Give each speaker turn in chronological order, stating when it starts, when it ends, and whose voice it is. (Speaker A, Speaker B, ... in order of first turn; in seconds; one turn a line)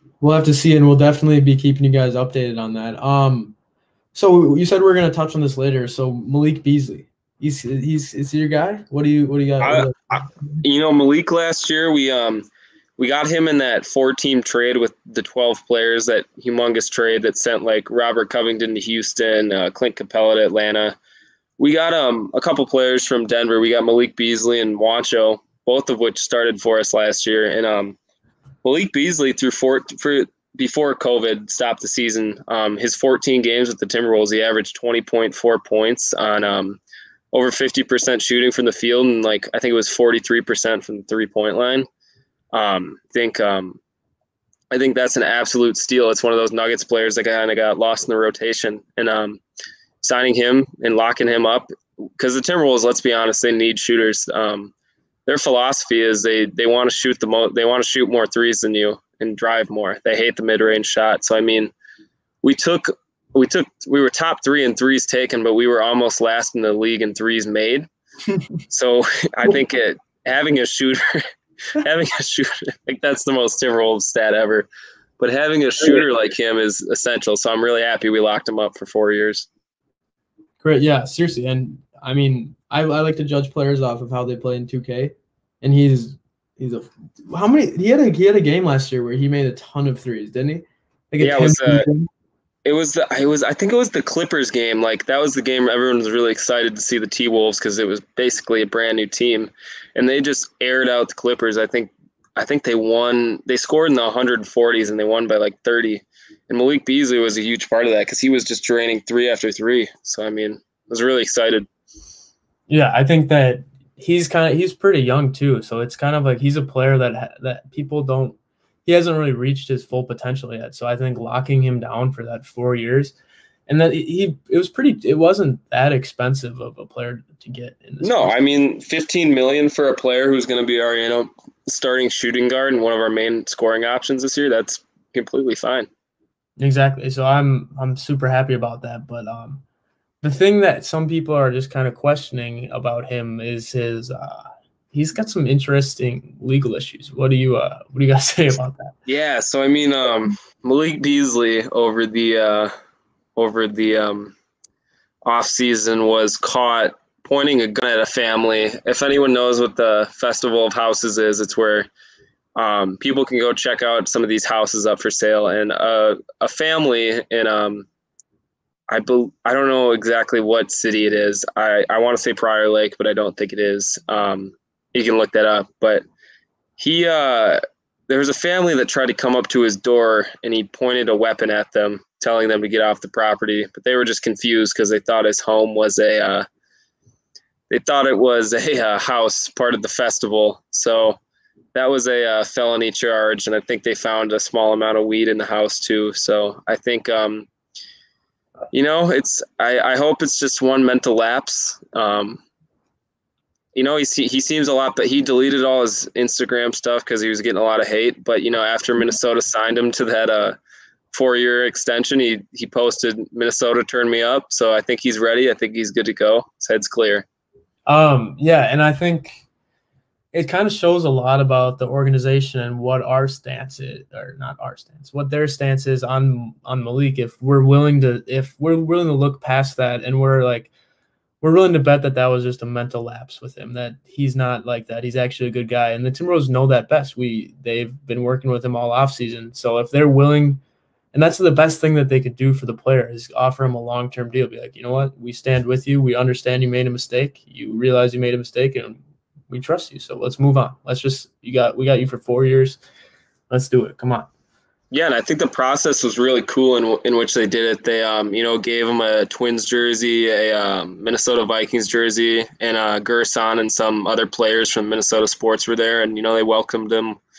Speaker A: 0.2-3.5
Speaker A: 4.1-10.6
Speaker B: 9.6-12.5
Speaker B: 13.0-21.0
Speaker B: 21.6-28.0
Speaker B: 28.6-36.8
Speaker B: 37.3-41.9
Speaker B: 42.5-43.8
Speaker B: 44.7-49.4
Speaker B: 50.0-54.7
Speaker B: 55.3-61.7
Speaker B: 62.4-67.9
Speaker B: 68.7-71.2
Speaker B: 71.8-74.7
Speaker B: 75.2-79.5
Speaker A: 80.6-92.1
Speaker B: 91.2-91.9
Speaker B: 92.7-111.7
Speaker A: 112.7-123.2
Speaker A: 123.7-128.5
Speaker B: 128.0-135.9
Speaker A: 136.6-139.6
Speaker A: 140.2-148.9
Speaker B: 149.1-152.7
Speaker B: 153.4-154.3
Speaker B: 155.2-161.9
Speaker B: 162.6-167.9
Speaker B: 168.9-176.0
Speaker B: 176.8-186.4
Speaker B: 187.7-191.2
Speaker B: 191.8-197.5
Speaker B: 198.7-202.4
Speaker B: 203.8-210.6
Speaker B: 211.1-217.2
Speaker A: 217.9-219.4
Speaker A: 220.3-230.7
Speaker A: 231.4-240.6
Speaker A: 241.1-252.8
Speaker A: 253.5-254.3
Speaker B: 254.9-267.2